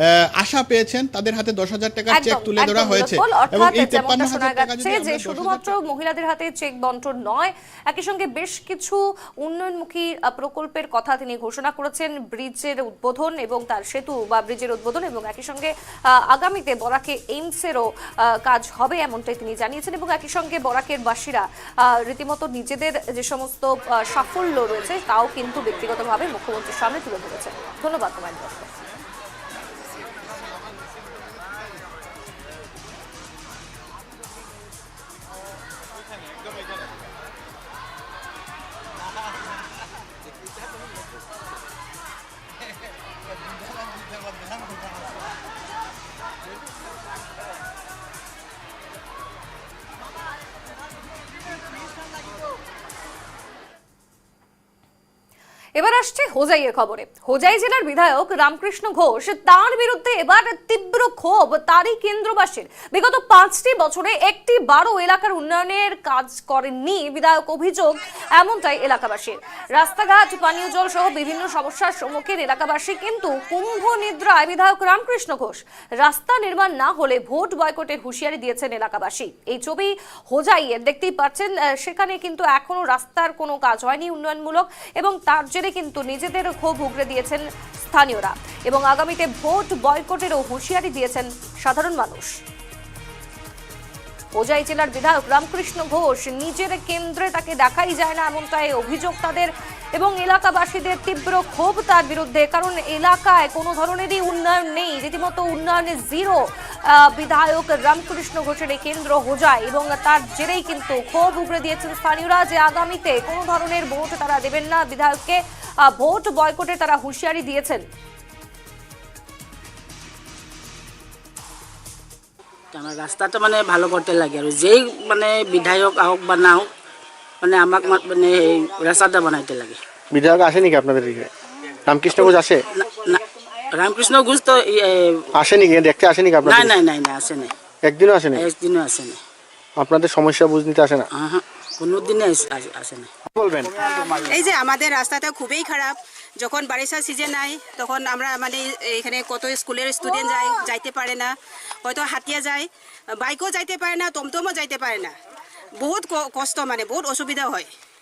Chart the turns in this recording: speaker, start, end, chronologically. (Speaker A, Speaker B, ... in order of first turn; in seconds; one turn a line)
Speaker A: 0.4-5.7
Speaker B: 2.1-28.7
Speaker B: 55.8-92.3
Speaker B: 94.4-117.8
Speaker C: 122.7-126.7
Speaker C: 127.4-129.8
Speaker D: 130.1-131.3
Speaker D: 131.9-132.6
Speaker C: 132.1-135.2
Speaker D: 135.4-136.8
Speaker C: 136.4-137.5
Speaker D: 137.8-138.5
Speaker C: 138.3-139.2
Speaker D: 139.8-141.0
Speaker C: 141.2-143.1
Speaker D: 143.3-143.7
Speaker E: 143.8-155.1
Speaker E: 155.8-157.7